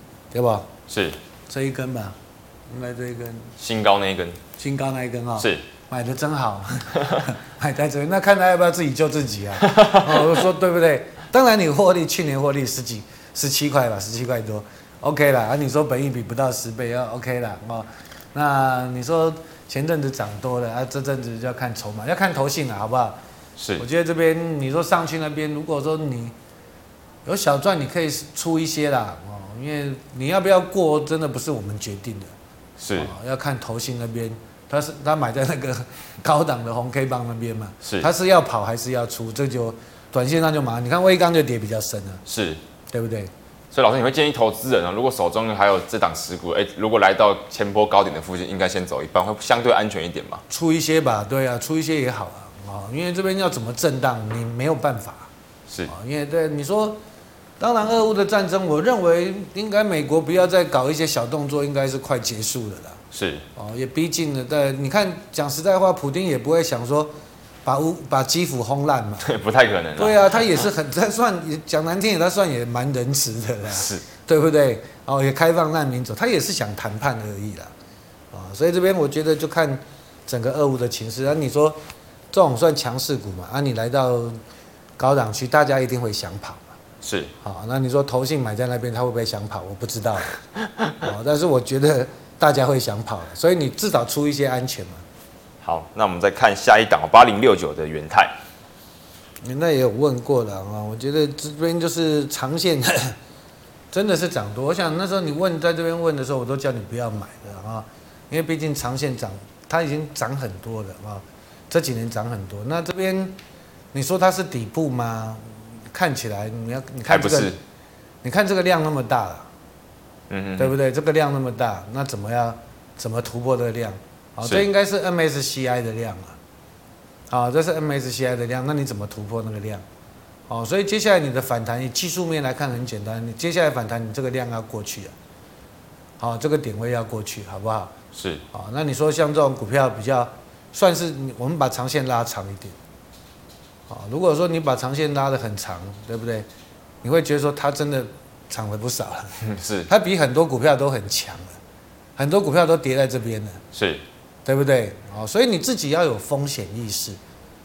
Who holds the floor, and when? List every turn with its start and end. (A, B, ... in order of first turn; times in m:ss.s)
0:00.3-0:00.7 A
0:00.9-0:01.2 B
0:01.5-0:02.2 A
0:02.7-0:03.6 A
0:03.6-0:04.4 B
0:04.6-0:23.2 A
0:05.4-0:05.6 B
0:09.6-0:10.4 B
0:23.6-0:23.8 B
0:23.8-0:26.4 A
0:27.2-0:32.3 A
0:32.8-0:33.1 B
0:33.0-0:42.2 A
0:37.8-0:38.1 B
0:42.3-0:42.6 B
0:42.9-0:43.3 A
0:43.7-0:50.4 B
0:50.5-0:55.3 A
0:55.9-0:57.0 A
0:57.6-1:03.0 A
1:03.1-1:03.4 B
1:03.6-1:09.3 A
1:09.2-1:10.6 B
1:10.0-1:17.7 A
1:13.7-1:14.0 B
1:18.3-1:21.8 A
1:22.3-1:24.4 A
1:25.0-1:26.7 A
1:27.0-1:27.3 B
1:27.4-1:30.3 A
1:31.0-1:35.0 A
1:35.6-1:38.3 B
1:39.4-1:43.2 A
1:43.9-1:53.4 A
1:53.9-1:57.6 A
1:57.1-1:57.6 B
1:58.2-1:59.5 A
2:00.3-2:00.8 B
2:00.6-2:06.4 A
2:07.3-2:09.8 A
2:10.5-2:15.1 A
2:16.2-2:17.9 A
2:18.1-2:18.4 B
2:18.5-2:22.8 A
2:23.9-2:26.5 A
2:27.0-2:31.6 A
2:29.4-2:29.9 B
2:32.2-2:33.6 A
2:33.7-2:34.0 B
2:34.4-2:37.2 A